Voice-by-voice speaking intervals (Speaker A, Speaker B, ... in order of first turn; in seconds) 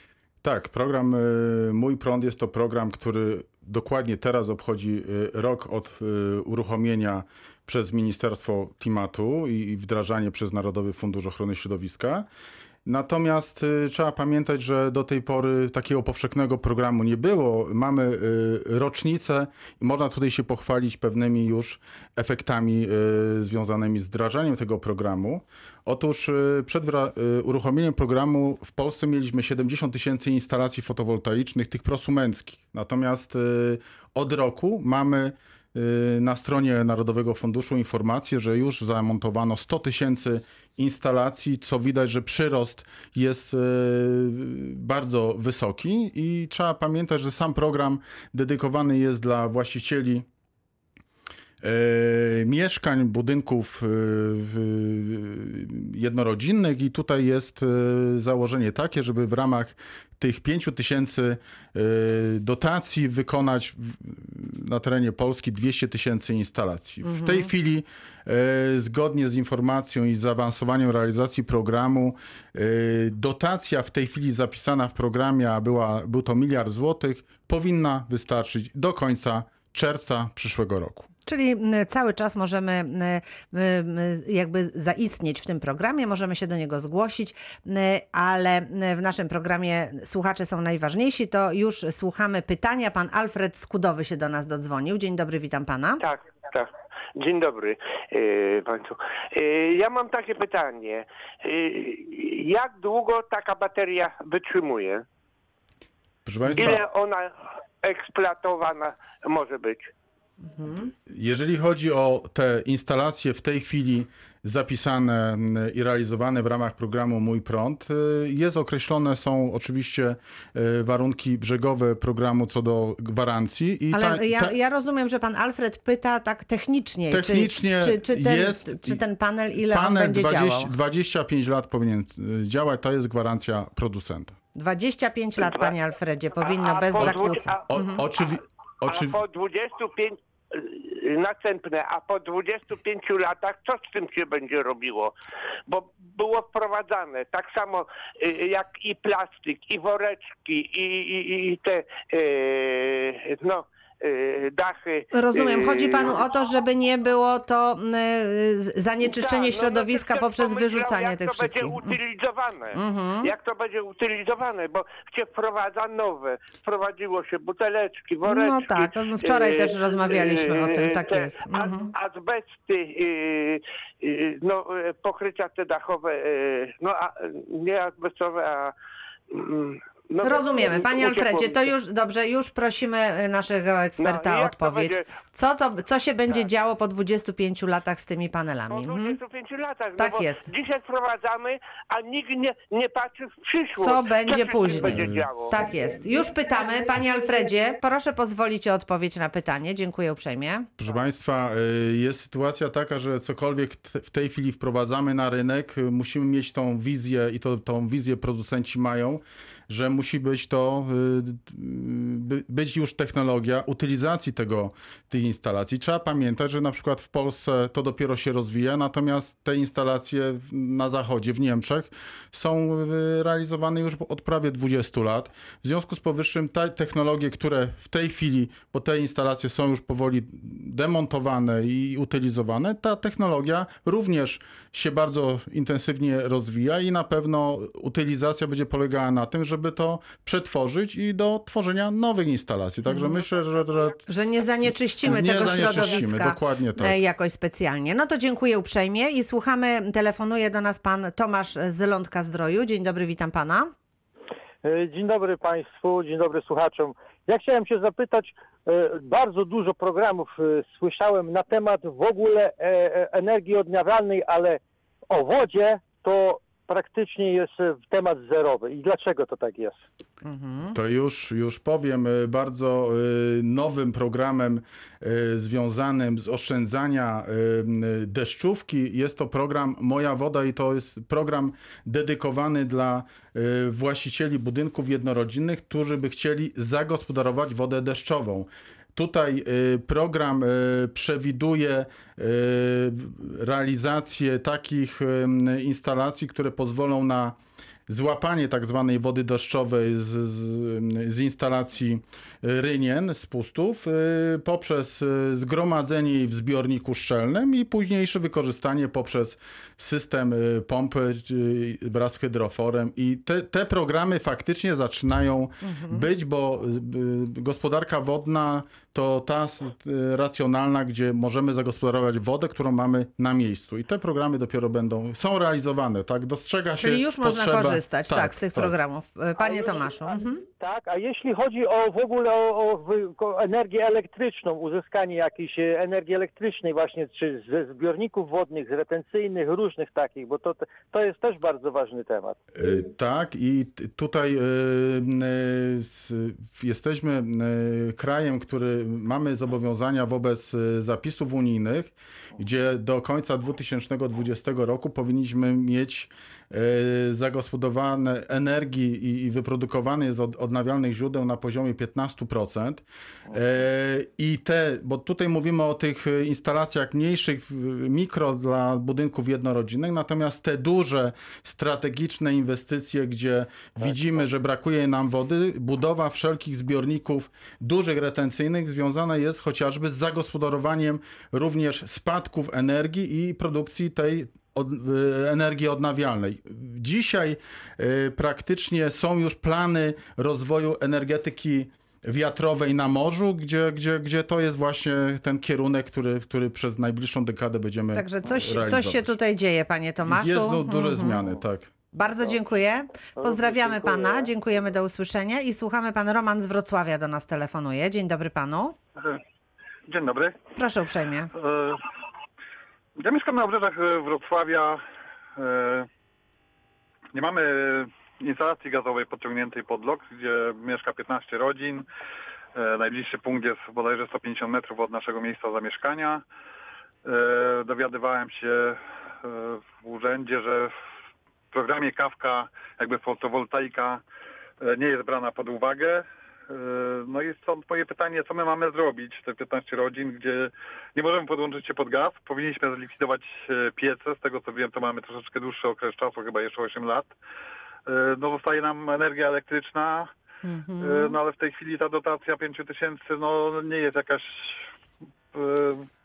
Speaker A: 0.4-12.3, 12.8-50.3, 51.6-81.1, 106.2-106.8, 110.8-124.5, 127.1-129.0, 129.6-134.3, 137.0-139.2, 200.8-244.0, 245.0-247.0, 270.7-297.4, 297.9-328.8, 342.6-399.1, 400.1-401.7
Speaker B: 67.0-67.5, 81.3-96.0, 110.5-110.9, 123.9-130.7, 134.6-138.0, 155.1-161.9, 162.7-163.3, 168.2-171.9, 180.2-189.2, 190.0-190.5, 193.8-200.7, 242.9-243.2, 244.1-253.7, 270.2-270.8, 315.6-316.1, 326.8-330.4, 397.9-401.2, 401.9-408.8, 410.6-411.3, 450.4-451.2
Speaker C: 96.0-105.0, 106.5-109.9, 135.4-135.7, 136.4-137.8, 138.8-145.1, 145.7-156.3, 159.0-178.7, 179.3-181.7, 184.0-185.1, 188.7-195.5
Speaker D: 254.6-269.8, 330.6-342.4
Speaker E: 409.9-410.4, 411.4-411.8, 413.0-414.8, 415.4-415.9, 417.1-421.9, 422.6-426.2, 427.0-430.7, 431.5-434.0, 434.6-447.1, 447.9-450.1, 450.8-454.6, 455.3-455.9